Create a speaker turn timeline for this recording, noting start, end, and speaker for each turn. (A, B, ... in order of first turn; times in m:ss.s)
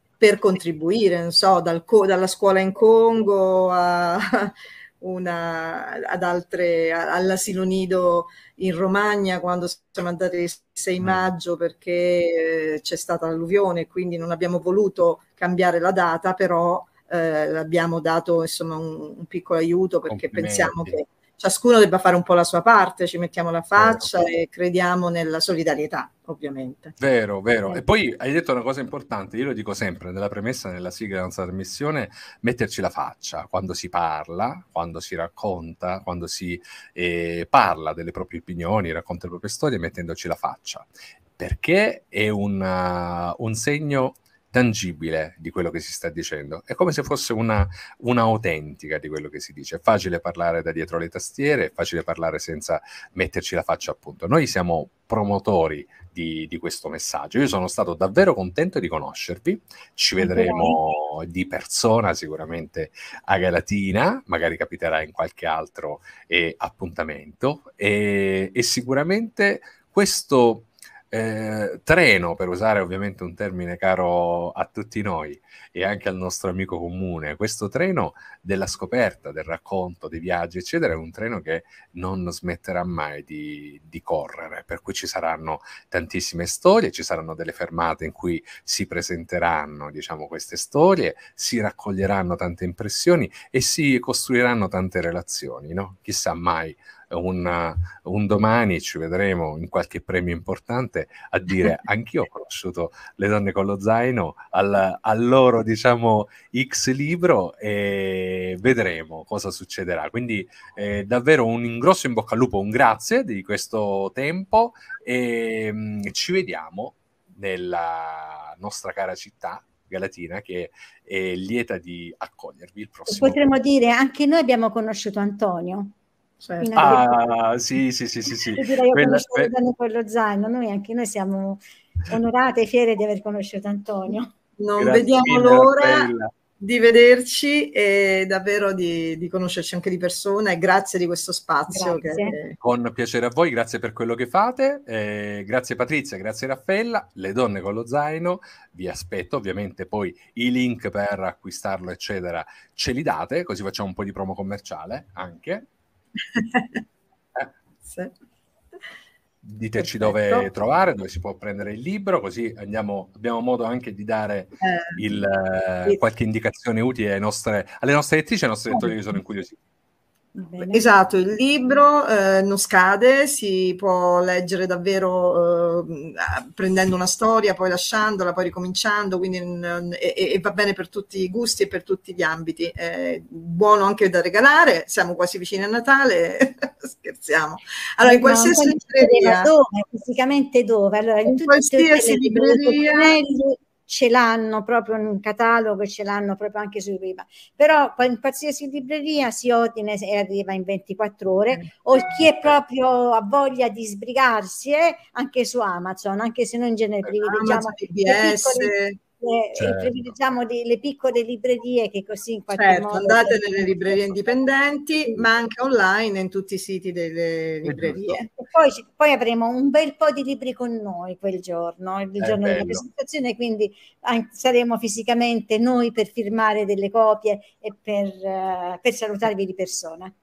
0:00.2-0:26.9 A
0:20.1-0:21.0 B
0:23.8-0:24.1 B
0:27.0-2:03.5 B
1:00.2-1:00.8 C
2:03.1-2:05.9 C
2:06.4-2:07.0 A
2:06.6-2:07.0 C
2:06.8-2:09.5 B
2:08.5-2:14.3 C
2:14.6-2:22.6 A
2:14.8-2:16.3 B
2:21.7-2:22.4 C
2:22.6-2:35.6 B
2:36.3-2:36.8 A
2:37.8-2:38.1 A
2:39.4-2:49.6 B
2:39.8-2:40.5 A
2:44.6-2:45.1 A
2:50.3-2:50.9 C
2:50.6-3:09.5 A
3:08.0-3:34.3 C
3:11.2-3:13.2 A
3:27.2-3:29.0 A
3:29.6-3:30.1 B
3:32.5-3:38.3 A
3:37.6-3:38.2 B
3:38.4-3:50.1 C
3:42.2-3:42.8 B